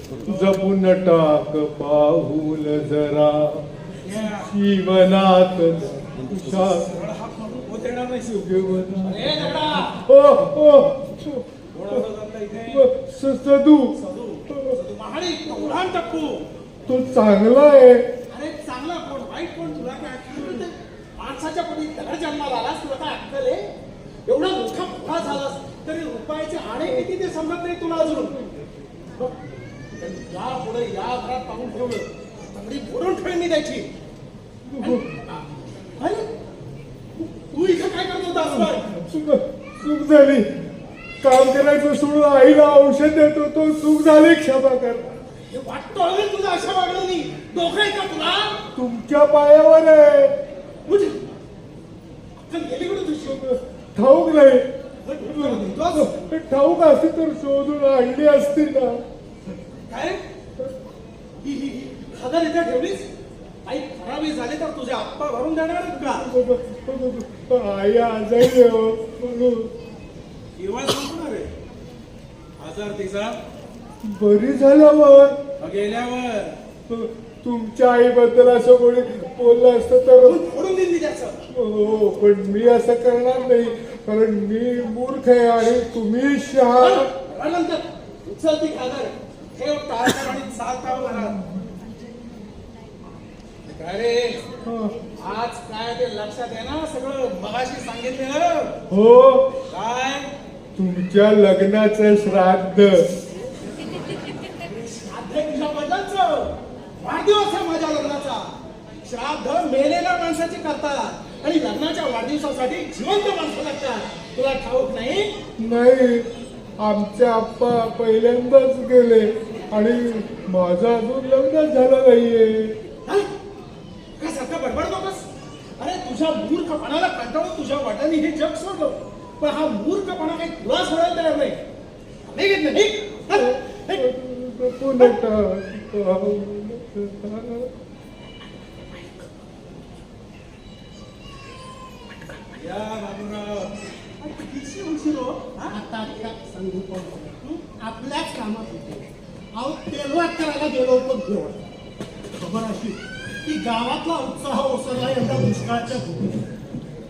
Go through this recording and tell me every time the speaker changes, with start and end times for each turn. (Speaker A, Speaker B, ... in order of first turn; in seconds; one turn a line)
Speaker A: 0.2-0.6
Speaker B: 0.2-3.6
Speaker A: 4.0-4.5
Speaker B: 4.5-6.9
Speaker A: 6.8-8.4
Speaker B: 8.3-12.0
Speaker A: 9.0-9.9
Speaker A: 11.7-12.8
Speaker B: 12.7-13.9
Speaker A: 13.9-16.4
Speaker B: 14.5-14.8
Speaker B: 16.9-18.1
Speaker A: 18.3-23.7
Speaker A: 24.2-28.4
Speaker A: 29.9-33.9
Speaker B: 34.7-35.0
Speaker A: 34.8-35.4
Speaker A: 36.0-36.3
Speaker A: 37.2-38.9
Speaker B: 38.4-40.5
Speaker B: 41.2-45.1
Speaker A: 45.5-48.6
Speaker B: 48.7-50.3
Speaker A: 50.9-51.2
Speaker A: 52.4-53.4
Speaker B: 53.2-54.6
Speaker A: 55.0-56.1
Speaker B: 55.2-59.0
Speaker A: 59.9-60.2
Speaker A: 61.4-63.1
Speaker A: 63.6-66.3
Speaker B: 66.1-69.7
Speaker A: 70.5-71.5
Speaker A: 72.6-73.4
Speaker B: 74.1-75.4
Speaker A: 75.6-76.6
Speaker B: 76.9-80.4
Speaker A: 80.2-81.4
Speaker B: 81.5-87.1
Speaker A: 86.8-91.4
Speaker A: 93.7-94.4
Speaker B: 94.6-95.0
Speaker A: 95.2-98.7
Speaker B: 98.9-99.5
Speaker A: 99.7-100.3
Speaker B: 100.8-103.1
Speaker A: 104.7-108.5
Speaker A: 109.0-115.3
Speaker B: 115.6-116.2
Speaker B: 116.8-122.8
Speaker A: 124.2-125.2
Speaker A: 125.8-131.6
Speaker A: 132.2-134.0
Speaker B: 133.3-137.7
Speaker A: 142.5-145.7
Speaker C: 145.7-151.6
Speaker C: 152.3-156.5